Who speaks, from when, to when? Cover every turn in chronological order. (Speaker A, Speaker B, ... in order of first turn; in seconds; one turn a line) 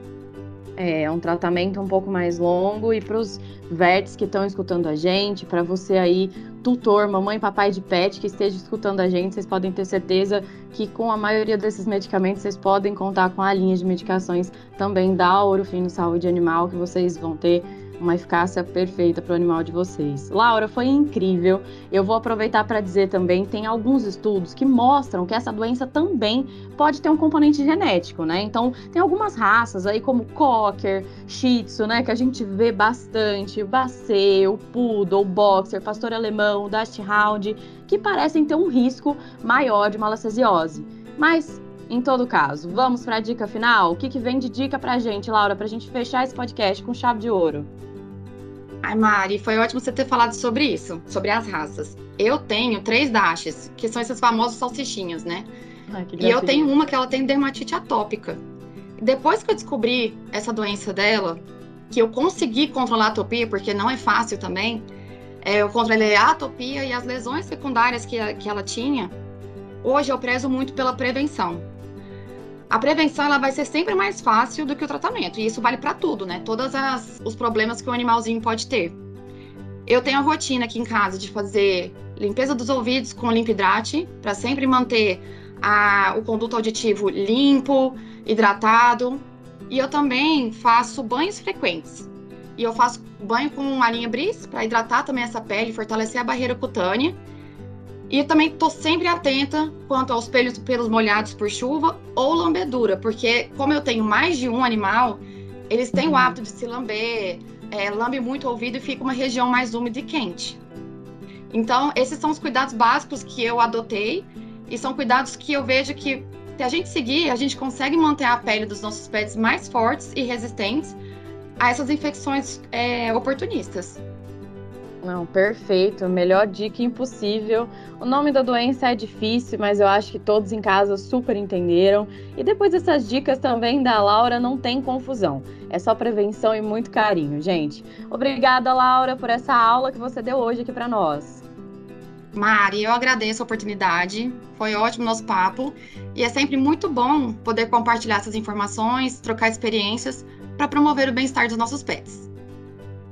Speaker A: 0.8-47.7
Speaker B: 48.8-55.5
Speaker A: 55.9-56.7
Speaker B: 56.2-58.4
Speaker B: 59.0-64.9
Speaker B: 65.4-69.1
Speaker B: 69.8-71.7
Speaker B: 72.7-79.0
Speaker B: 79.9-97.2
Speaker B: 98.1-110.6
Speaker A: 106.0-106.3
Speaker B: 111.5-121.0
Speaker B: 121.6-124.0
Speaker A: 125.0-141.4
Speaker B: 142.3-152.3